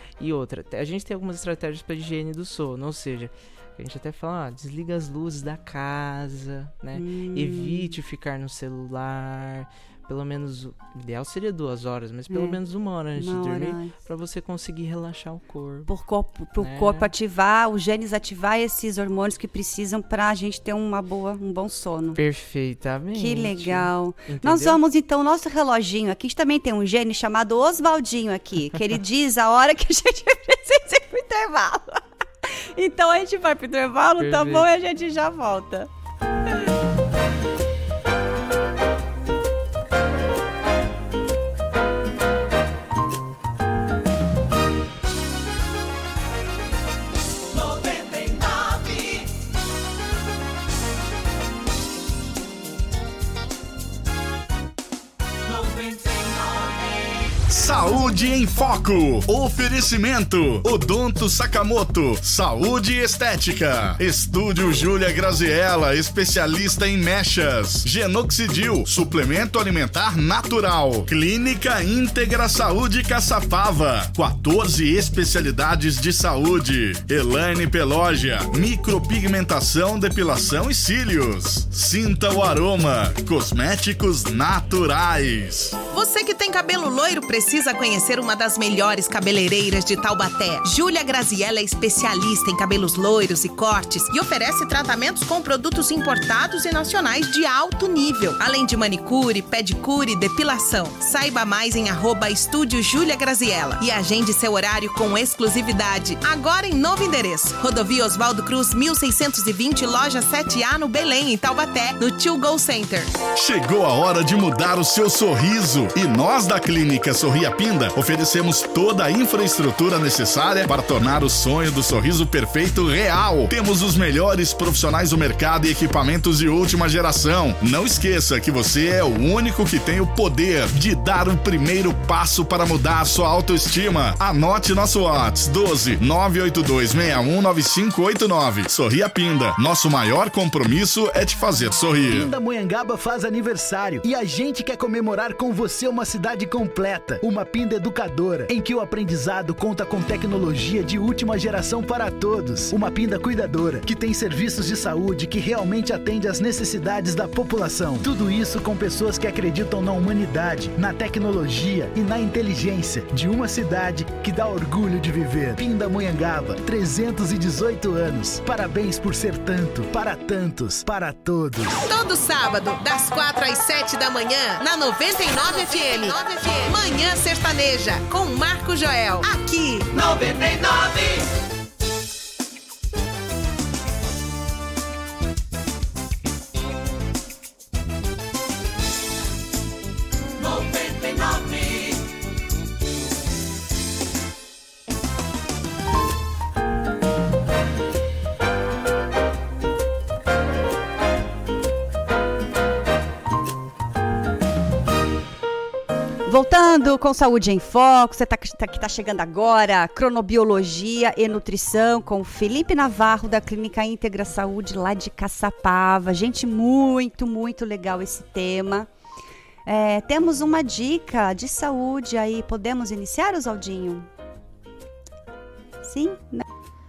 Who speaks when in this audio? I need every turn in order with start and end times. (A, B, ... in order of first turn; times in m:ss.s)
0:00.2-0:15.9 A
0:06.9-0:08.0 B
0:12.3-0:12.6 B
0:13.2-0:13.9 B
0:15.9-0:22.2 B
0:16.6-0:17.1 A
0:22.2-0:24.8 A
0:23.2-0:35.9 B
0:34.2-0:34.7 A
0:57.5-1:25.8 C
1:25.9-1:53.1 D
1:53.4-2:22.3 C
2:22.1-2:51.7 E
2:51.8-3:00.8 D
3:26.2-3:38.9 B
3:39.7-3:44.1 B
3:45.8-3:46.4 B